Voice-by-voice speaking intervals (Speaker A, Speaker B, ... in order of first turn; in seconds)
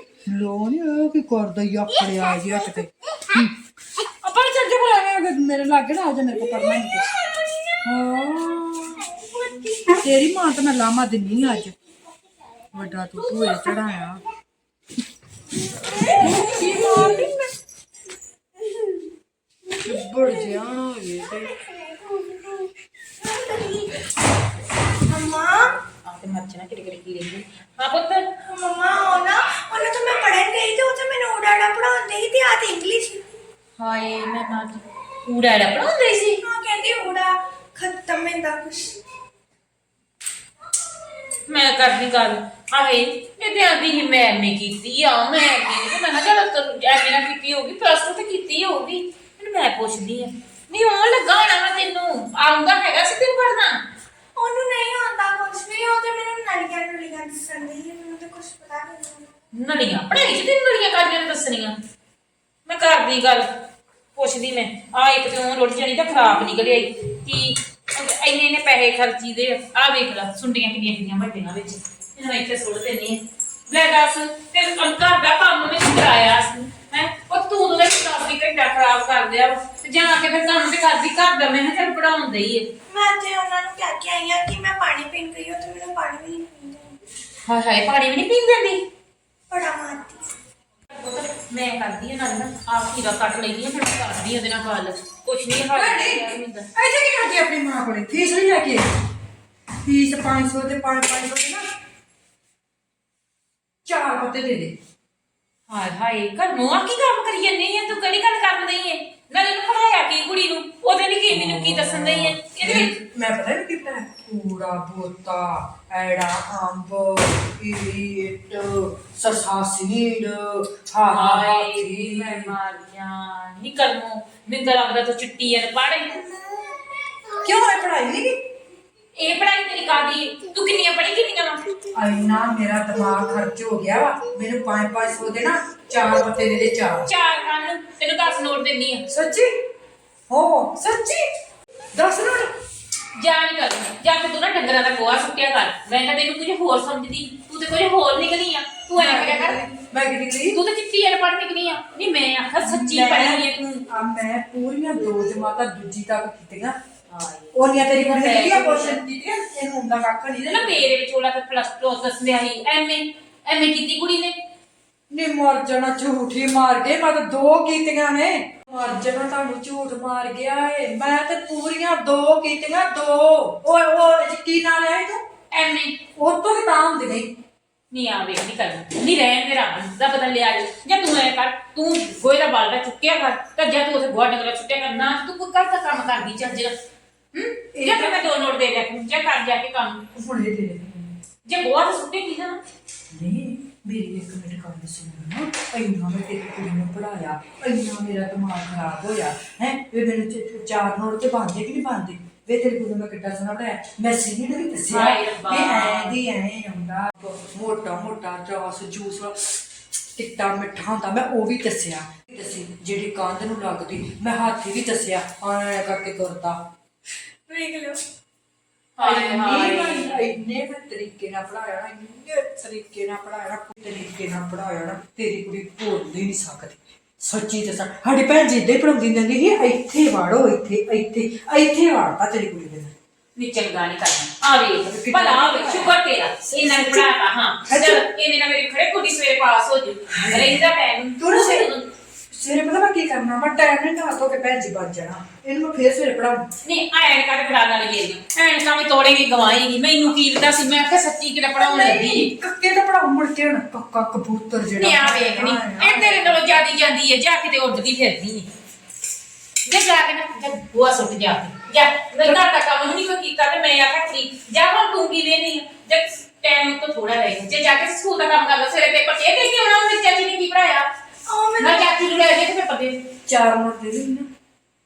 Speaker A: 0.2-7.0, 7.8-9.2, 9.9-11.7, 12.7-14.2, 16.0-17.4, 19.8-21.6, 95.7-98.9, 99.8-101.6, 103.8-104.7, 111.3-122.5, 127.4-128.4, 131.9-137.1, 139.1-139.5, 140.3-141.3, 141.9-142.5, 148.9-150.6, 152.6-156.8, 157.5-160.9, 165.1-175.2, 176.2-177.3, 187.7-188.3, 190.1-191.2, 193.1-209.6, 210.2-216.6, 217.5-218.0, 219.0-232.9, 234.8-237.1, 237.7-238.0, 240.1-241.7, 242.3-246.4, 251.6-256.5, 273.2-274.3
Speaker B: 9.2-9.9, 15.8-17.3, 18.7-19.0, 22.3-22.6, 23.2-24.0, 25.0-25.7, 28.4-33.2, 36.4-39.0, 54.4-59.3, 82.9-87.0, 89.5-90.2, 271.2-272.0
Speaker C: 25.9-28.3, 33.8-36.4, 41.5-53.8, 59.5-61.8, 62.6-63.5, 64.1-82.7, 87.4-88.8, 90.9-96.7, 105.7-112.9, 121.1-126.4, 129.1-131.7, 137.1-139.0, 143.2-149.6, 150.5-153.8, 157.1-159.0, 160.5-164.3, 175.5-176.0, 177.9-186.8, 187.3-190.0, 191.4-192.6, 204.8-206.2, 219.0-220.3, 233.4-241.9, 246.6-252.3, 254.7-258.5, 259.6-270.9, 271.6-273.0